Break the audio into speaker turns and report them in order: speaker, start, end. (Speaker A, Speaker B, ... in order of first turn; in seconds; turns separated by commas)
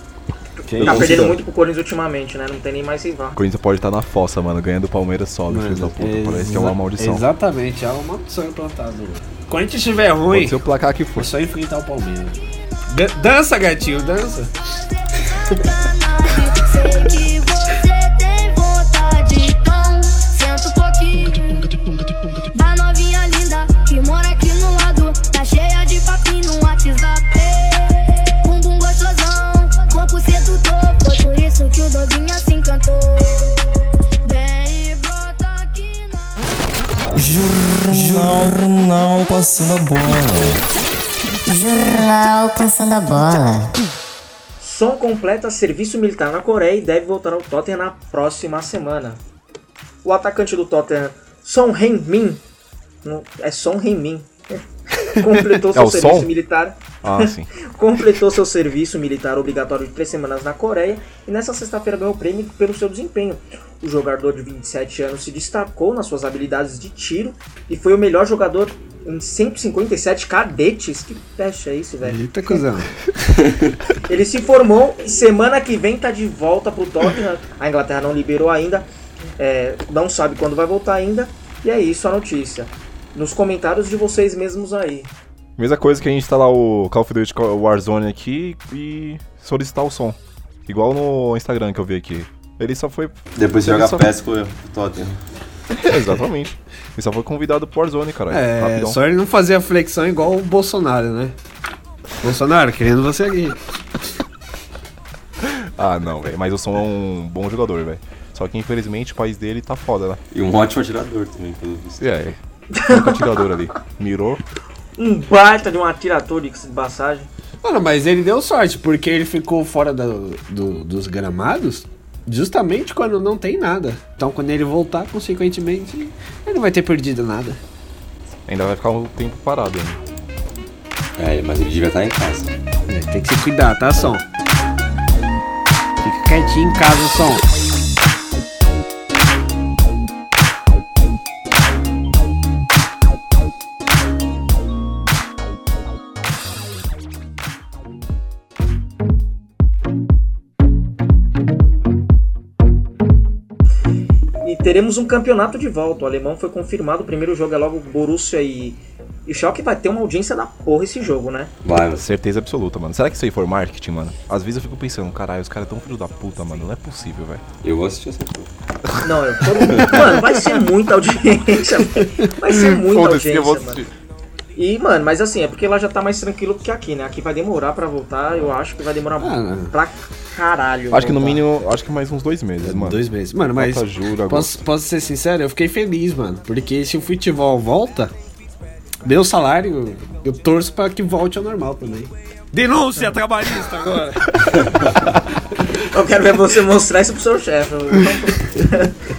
Speaker A: 0.7-1.3, Speaker B: 0.8-1.4, Speaker C: 0.8-3.4, Speaker B: 3.4-7.2, Speaker A: 5.5-10.6, Speaker B: 10.3-11.3, Speaker A: 11.2-14.5, Speaker D: 15.3-33.6, Speaker D: 34.2-36.5, Speaker E: 37.1-40.6, Speaker F: 37.4-38.4, Speaker F: 41.5-43.7, Speaker D: 42.1-42.6, Speaker C: 44.6-49.2, Speaker C: 50.0-52.4, Speaker C: 53.0-54.3, Speaker C: 55.0-72.2, Speaker B: 55.7-56.3, Speaker B: 57.0-57.5, Speaker A: 72.0-72.9, Speaker E: 73.4-73.7, Speaker C: 74.0-78.9, Speaker C: 79.4-85.1, Speaker B: 85.6-94.1, Speaker E: 93.4-95.2, Speaker B: 95.7-99.0, Speaker A: 98.3-101.3, Speaker A: 102.2-103.6, Speaker B: 105.4-110.2, Speaker E: 110.3-112.0, Speaker B: 112.0-114.4, Speaker C: 112.7-113.4, Speaker C: 115.0-117.3, Speaker A: 117.6-127.6, Speaker B: 128.5-130.0, Speaker E: 131.2-132.5, Speaker A: 132.9-134.2, Speaker A: 136.0-137.4, Speaker C: 154.4-161.5, Speaker E: 161.6-162.1, Speaker B: 161.9-167.4, Speaker E: 167.6-168.5, Speaker C: 169.0-173.8, Speaker E: 169.7-170.0, Speaker B: 172.5-173.9, Speaker C: 174.6-181.4, Speaker A: 179.2-179.7, Speaker B: 180.9-184.6, Speaker A: 182.6-188.1, Speaker A: 189.0-194.3, Speaker B: 194.4-195.2, Speaker C: 195.8-198.9